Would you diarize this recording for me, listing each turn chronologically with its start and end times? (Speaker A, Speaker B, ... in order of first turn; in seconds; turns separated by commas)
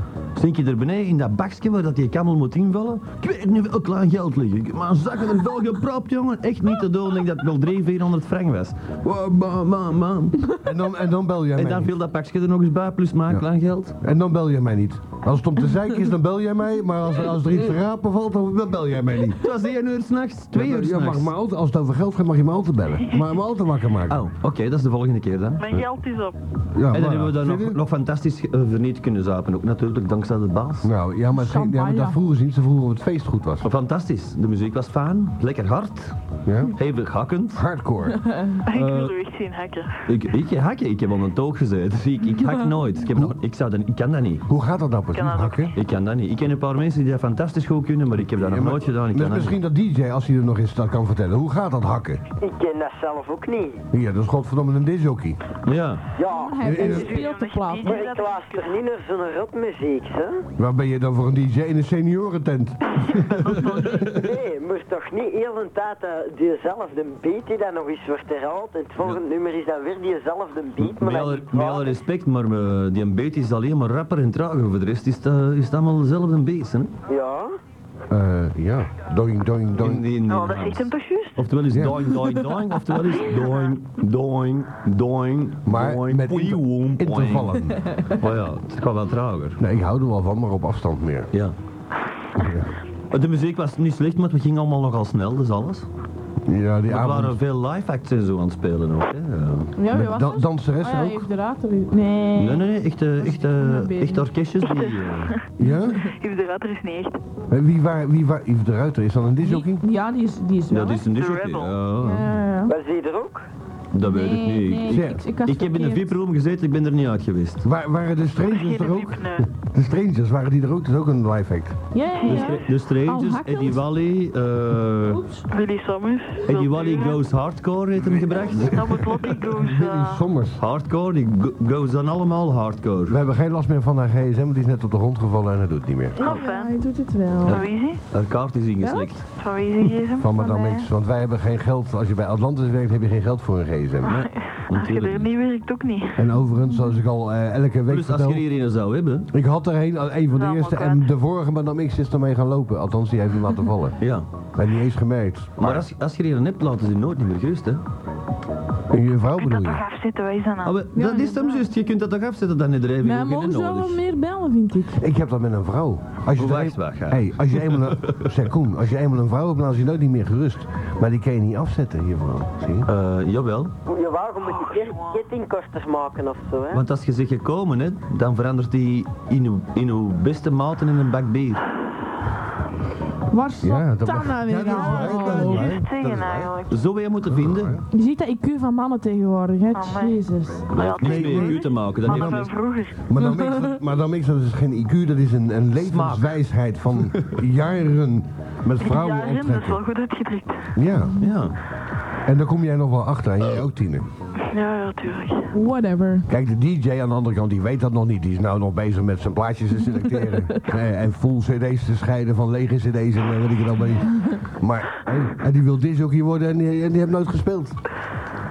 Speaker A: 0.3-10.6, Speaker B: 10.6-11.9, Speaker A: 11.6-13.9, Speaker B: 14.0-19.4, Speaker A: 19.4-21.3, Speaker B: 20.5-24.2, Speaker A: 24.1-25.6, Speaker C: 25.6-26.4, Speaker B: 26.8-27.8, Speaker A: 26.9-30.9, Speaker B: 30.8-33.7, Speaker D: 31.3-32.2, Speaker A: 33.6-36.2, Speaker B: 36.5-36.8, Speaker A: 36.7-37.6, Speaker B: 37.5-38.2, Speaker D: 38.3-38.5, Speaker C: 38.7-40.0, Speaker A: 38.7-39.1, Speaker A: 40.1-44.5, Speaker B: 44.5-45.7, Speaker C: 45.1-45.8, Speaker A: 45.8-49.6, Speaker B: 48.4-52.2, Speaker E: 52.4-53.8, Speaker B: 53.9-55.4, Speaker A: 55.7-56.0, Speaker E: 56.2-57.0, Speaker D: 56.3-57.9, Speaker B: 56.6-57.1, Speaker C: 56.8-58.7, Speaker E: 57.8-60.5, Speaker B: 60.6-63.6, Speaker C: 62.9-64.2, Speaker E: 64.1-72.0, Speaker A: 70.8-76.9, Speaker E: 77.1-77.5, Speaker B: 78.1-80.1, Speaker A: 79.8-89.6, Speaker C: 80.3-81.5, Speaker B: 81.7-82.0, Speaker B: 85.7-88.0, Speaker B: 89.6-91.3, Speaker B: 92.4-92.7, Speaker A: 93.1-95.9, Speaker B: 96.5-97.4, Speaker A: 96.9-99.7, Speaker D: 99.8-102.7, Speaker B: 99.9-101.3, Speaker A: 102.3-105.3, Speaker D: 103.2-104.3, Speaker C: 104.7-105.4, Speaker B: 105.6-106.1, Speaker C: 106.0-107.2, Speaker B: 107.5-109.8, Speaker D: 109.4-111.0, Speaker A: 110.7-112.3, Speaker C: 111.1-111.8, Speaker D: 112.0-112.7, Speaker E: 112.7-113.5, Speaker A: 113.9-117.7, Speaker D: 114.0-116.2, Speaker B: 114.9-115.2, Speaker B: 117.6-121.8, Speaker C: 118.5-119.5, Speaker D: 121.9-123.8, Speaker C: 122.1-122.5, Speaker A: 122.2-125.2, Speaker D: 125.1-125.5, Speaker C: 125.5-127.2, Speaker A: 126.4-129.0, Speaker B: 128.0-130.6, Speaker C: 128.5-130.2, Speaker A: 130.6-133.2, Speaker B: 133.1-136.2, Speaker C: 136.2-136.8, Speaker D: 136.2-137.6, Speaker C: 137.4-138.0, Speaker A: 137.4-139.3, Speaker D: 138.8-139.1, Speaker C: 139.4-140.3, Speaker B: 140.2-144.2, Speaker D: 140.3-140.9, Speaker A: 144.0-145.3, Speaker C: 144.1-146.3, Speaker B: 146.2-148.4, Speaker A: 147.9-149.3, Speaker B: 149.3-154.0, Speaker C: 150.3-151.1, Speaker A: 154.0-154.3, Speaker B: 154.6-155.9, Speaker A: 155.6-157.8, Speaker B: 158.9-159.8, Speaker C: 159.4-160.8, Speaker A: 160.6-164.0, Speaker D: 160.9-161.7, Speaker D: 163.0-165.0, Speaker B: 165.0-172.9, Speaker A: 166.3-168.3, Speaker A: 172.9-173.7, Speaker E: 173.9-176.8, Speaker C: 174.4-175.2, Speaker A: 176.7-181.6, Speaker D: 183.3-185.8, Speaker B: 183.6-186.5, Speaker C: 184.7-186.8, Speaker A: 186.7-187.8, Speaker B: 187.3-187.8, Speaker D: 187.9-190.7, Speaker C: 189.7-190.2, Speaker C: 190.7-193.0, Speaker A: 190.8-192.5, Speaker B: 190.8-199.8, Speaker A: 195.8-196.4, Speaker A: 197.1-197.4, Speaker C: 198.8-200.7, Speaker B: 200.8-201.2, Speaker A: 201.2-201.6, Speaker B: 202.2-204.1, Speaker C: 204.4-205.5, Speaker D: 205.5-206.3, Speaker B: 206.3-217.8, Speaker D: 210.3-210.6